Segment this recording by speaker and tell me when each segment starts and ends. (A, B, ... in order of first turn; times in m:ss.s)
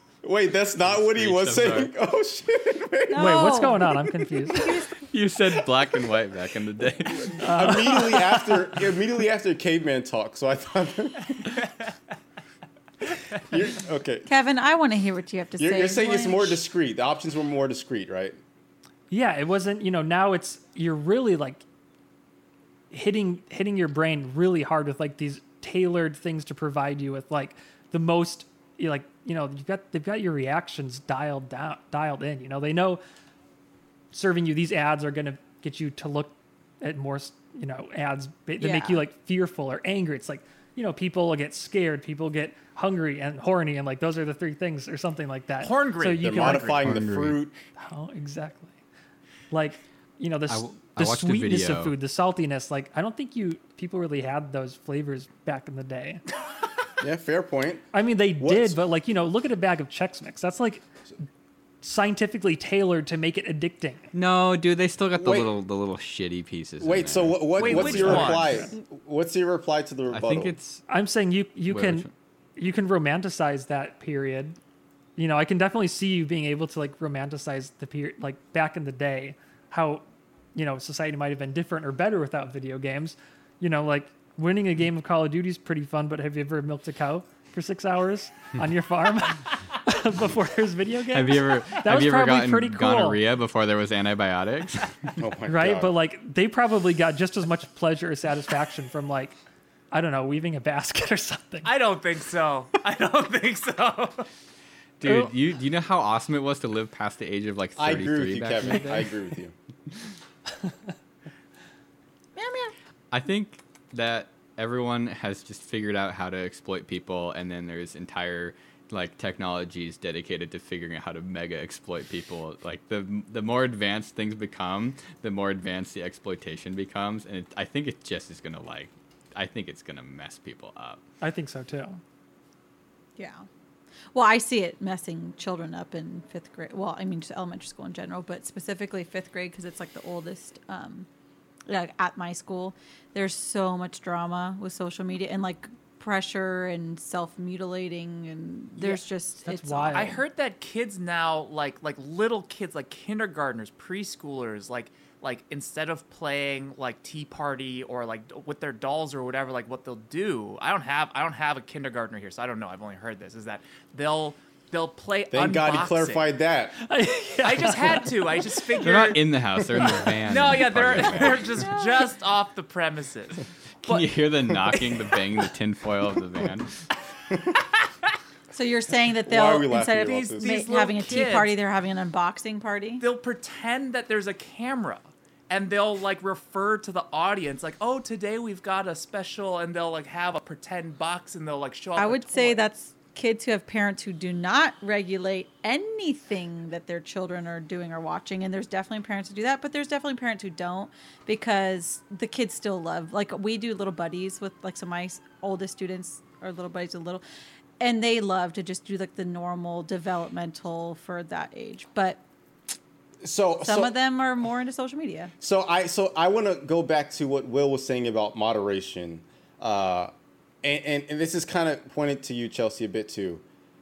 0:00.2-0:03.6 A
0:00.9-0:01.9 B
0:03.1-0:04.0 C
0:03.2-0:04.8 D
0:04.6-0:04.9 C
0:05.0-0:07.7 B
0:07.2-0:11.5 A
0:07.4-0:08.7 D
0:13.4-0:14.3 A
0:14.3-0:16.6 C
0:15.6-0:18.4 A
0:19.1-0:21.6 D
0:22.9-0:33.0 D
0:34.1-0:46.8 D
0:38.6-0:39.0 C
0:45.6-0:46.8 E
0:46.2-0:47.6 A
0:46.8-0:47.4 B
0:47.8-0:48.8 D
0:49.5-0:56.2 D
0:50.5-0:51.9 B
0:57.0-0:58.8 A
0:57.9-1:00.8 D
1:01.8-1:04.1 D
1:04.1-1:08.5 B
1:05.2-1:05.5 A
1:06.8-1:10.6 A
1:07.6-1:08.5 E
1:07.6-1:08.7 D
1:10.1-1:10.8 B
1:10.9-1:14.6 D
1:11.7-1:12.1 B
1:15.2-1:33.2 D
1:31.1-1:35.2 B
1:35.2-1:35.9 A
1:35.5-1:39.4 D
1:39.9-1:41.7 D
1:41.6-1:44.3 E
1:45.0-1:49.1 B
1:45.0-1:45.3 D
1:47.8-1:49.5 A
1:52.4-1:52.7 C
1:53.1-2:11.0 B
2:11.2-2:12.0 D
2:13.2-2:13.5 C
2:14.1-2:21.1 C
2:21.7-2:30.2 C
2:28.8-2:30.2 D
2:29.9-2:46.3 E
2:45.3-2:46.8 A
2:46.8-2:48.7 D
2:47.4-2:49.2 E
2:48.8-2:51.8 B
2:50.2-2:54.1 E
2:53.8-2:56.8 B
2:54.7-2:55.4 E
2:58.5-3:03.0 C
2:59.3-3:00.5 A
3:00.0-3:01.6 E
3:03.0-3:12.6 E
3:12.0-3:27.2 C
3:27.8-3:32.2 C
3:33.2-3:33.9 A
3:33.6-3:35.3 C
3:35.4-3:40.1 A
3:40.6-3:43.4 A